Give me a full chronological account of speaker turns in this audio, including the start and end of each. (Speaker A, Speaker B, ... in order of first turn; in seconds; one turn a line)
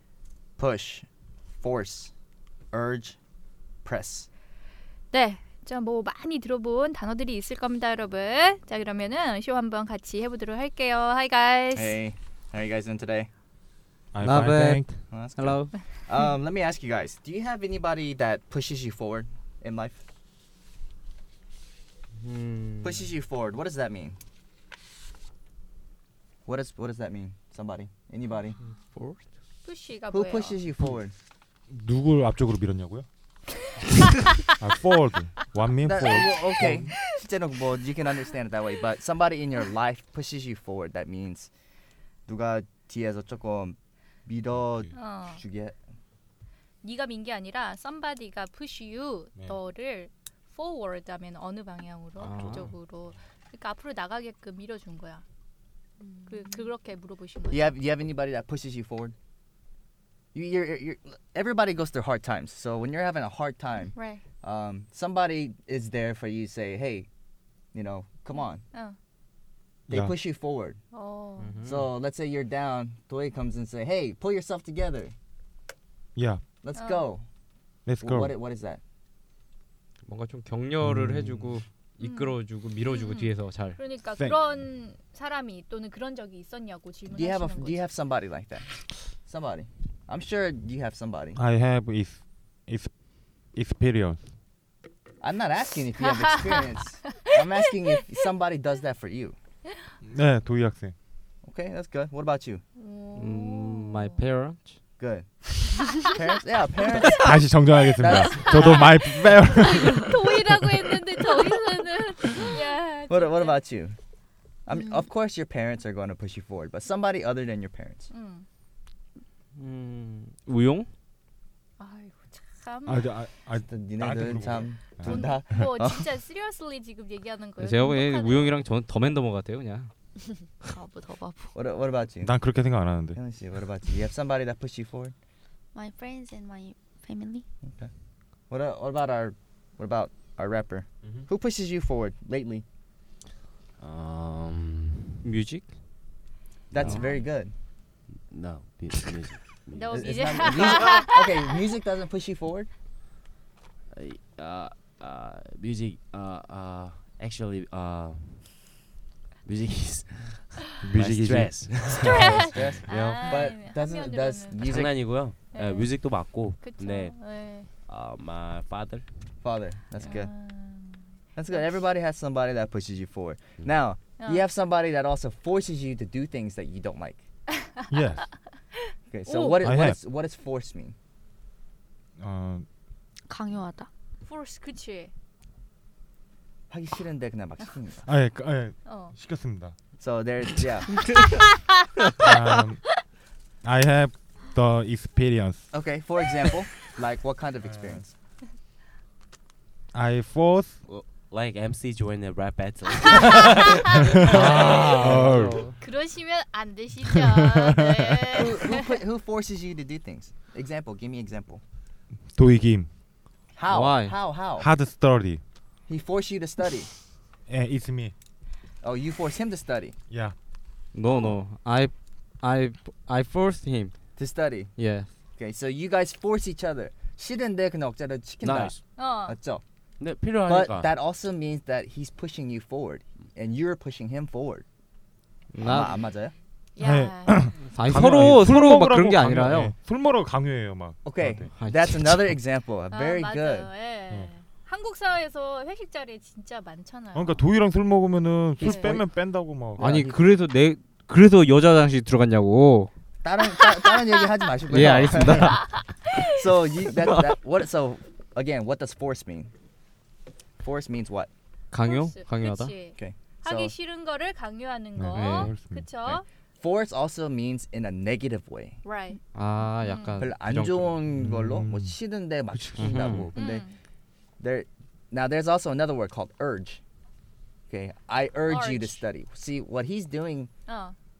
Speaker A: 0.6-1.1
Speaker A: 1.6-2.1
Speaker A: 2.7-3.2
Speaker A: 3.8-4.3
Speaker B: 5.1-12.0
Speaker A: 11.7-13.3
Speaker C: 14.1-14.9
Speaker D: 14.2-15.8
Speaker A: 15.1-20.0
Speaker D: 22.2-23.1
Speaker A: 22.8-24.2
Speaker A: 26.4-28.6
Speaker D: 28.8-29.2
Speaker B: 29.6-30.6
Speaker A: 30.1-31.1
Speaker C: 31.7-33.0
Speaker C: 34.6-36.9
Speaker A: 35.9-41.5
Speaker A: 42.3-45.8
Speaker C: 44.5-44.9
Speaker B: 44.9-45.4
Speaker B: 46.8-55.2
Speaker D: 52.2-52.7
Speaker C: 52.3-52.7
Speaker E: 56.0-56.5
Speaker B: 56.3-57.7
Speaker A: 57.5-59.1
Speaker A: 60.3-67.1
Speaker B: 64.0-64.2
Speaker A: 67.7-68.6
Speaker C: 69.9-70.1
Speaker A: 69.9-70.8
Speaker B: 70.9-71.6
Speaker D: 71.4-71.9
Speaker A: 71.6-75.1
Speaker C: 76.2-76.4
Speaker A: 76.6-77.2
Speaker B: 76.8-77.1
Speaker C: 77.8-78.3
Speaker A: 78.0-78.8
Speaker D: 80.0-84.0
Speaker C: 80.8-81.5
Speaker B: 82.0-87.9
Speaker C: 84.0-84.4
Speaker A: 87.1-91.4
Speaker C: 91.3-94.2
Speaker A: 95.2-99.3
Speaker B: 96.2-97.3
Speaker C: 100.0-100.9
Speaker A: 101.4-102.6
Speaker B: 102.8-104.2
Speaker D: 103.1-104.8
Speaker A: 105.0-107.3
Speaker C: 107.2-110.2
Speaker A: 108.0-108.8
Speaker B: 108.3-109.2
Speaker B: 109.7-113.6
Speaker A: 113.1-114.0
Speaker A: 114.7-118.1
Speaker E: 114.7-115.0
Speaker B: 118.1-118.5
Speaker D: 119.5-120.9
Speaker B: 121.8-123.1
Speaker C: 122.8-125.6
Speaker A: 123.6-126.0
Speaker B: 125.0-128.6
Speaker D: 127.6-129.9
Speaker E: 130.7-131.5
Speaker A: 131.5-132.4
Speaker C: 132.2-133.2
Speaker A: 133.2-135.1
Speaker E: 135.7-137.4
Speaker A: 137.7-137.9
Speaker A: 138.5-142.6
Speaker F: 143.8-145.2
Speaker D: 145.2-145.8
Speaker A: 146.7-147.5
Speaker D: 146.8-147.0
Speaker F: 148.3-150.8
Speaker B: 149.8-151.3
Speaker A: 149.9-152.7
Speaker F: 153.9-158.7
Speaker F: 159.4-163.5
Speaker C: 160.8-162.3
Speaker B: 162.0-164.6
Speaker A: 162.4-165.1
Speaker C: 162.9-163.1
Speaker F: 164.6-169.1
Speaker B: 165.5-167.7
Speaker A: 169.4-170.3
Speaker B: 170.0-171.8
Speaker A: 171.3-177.2
Speaker B: 174.2-174.4
Speaker C: 177.9-178.3
Speaker A: 179.1-180.9
Speaker B: 179.2-179.6
Speaker C: 179.6-180.0
Speaker C: 182.2-182.7
Speaker E: 183.3-183.9
Speaker B: 184.2-185.1
Speaker A: 186.7-188.0
Speaker C: 188.0-189.8
Speaker B: 188.8-189.2
Speaker A: 189.9-191.2
Speaker C: 192.2-192.8
Speaker C: 193.6-195.7
Speaker A: 195.7-198.1
Speaker C: 199.9-200.8
Speaker F: 200.8-205.1
Speaker C: 204.1-205.6
Speaker D: 204.3-205.7
Speaker B: 205.8-208.8
Speaker C: 207.9-208.3
Speaker A: 208.3-211.6
Speaker C: 212.3-212.9
Speaker A: 213.5-214.7
Speaker D: 213.7-214.2
Speaker C: 214.6-215.4
Speaker A: 215.9-216.9
Speaker C: 217.5-218.1
Speaker A: 218.8-219.9
Speaker C: 220.1-220.3
Speaker D: 220.9-225.1
Speaker A: 224.2-224.7
Speaker A: 225.4-229.6
Speaker F: 228.4-228.8
Speaker B: 228.9-229.3
Speaker F: 230.0-230.9
Speaker A: 230.4-234.6
Speaker D: 235.5-236.0
Speaker A: 235.6-236.3
Speaker B: 236.8-237.6
Speaker C: 236.8-241.5
Speaker D: 237.7-239.7
Speaker A: 241.0-243.7
Speaker D: 241.5-242.3
Speaker B: 242.9-247.4
Speaker C: 247.1-249.9
Speaker A: 248.6-249.1
Speaker B: 248.6-248.9
Speaker A: 249.8-250.2
Speaker D: 249.8-252.9
Speaker A: 253.2-255.6
Speaker B: 253.6-253.9
Speaker D: 254.7-256.0
Speaker B: 255.5-256.4
Speaker A: 256.2-259.5
Speaker D: 256.9-257.4
Speaker A: 260.6-261.3
Speaker D: 261.7-262.7
Speaker B: 261.8-266.2
Speaker A: 262.9-263.7
Speaker C: 264.9-266.2
Speaker D: 265.1-265.5
Speaker A: 266.6-268.8
Speaker B: 268.8-269.2
Speaker D: 269.3-271.0
Speaker B: 269.8-270.2
Speaker A: 270.2-273.6
Speaker C: 271.1-271.9
Speaker C: 272.5-273.3
Speaker D: 272.8-273.3
Speaker B: 273.3-273.8
Speaker A: 274.4-276.8
Speaker A: 277.7-280.5
Speaker B: 278.5-279.0
Speaker B: 280.7-280.9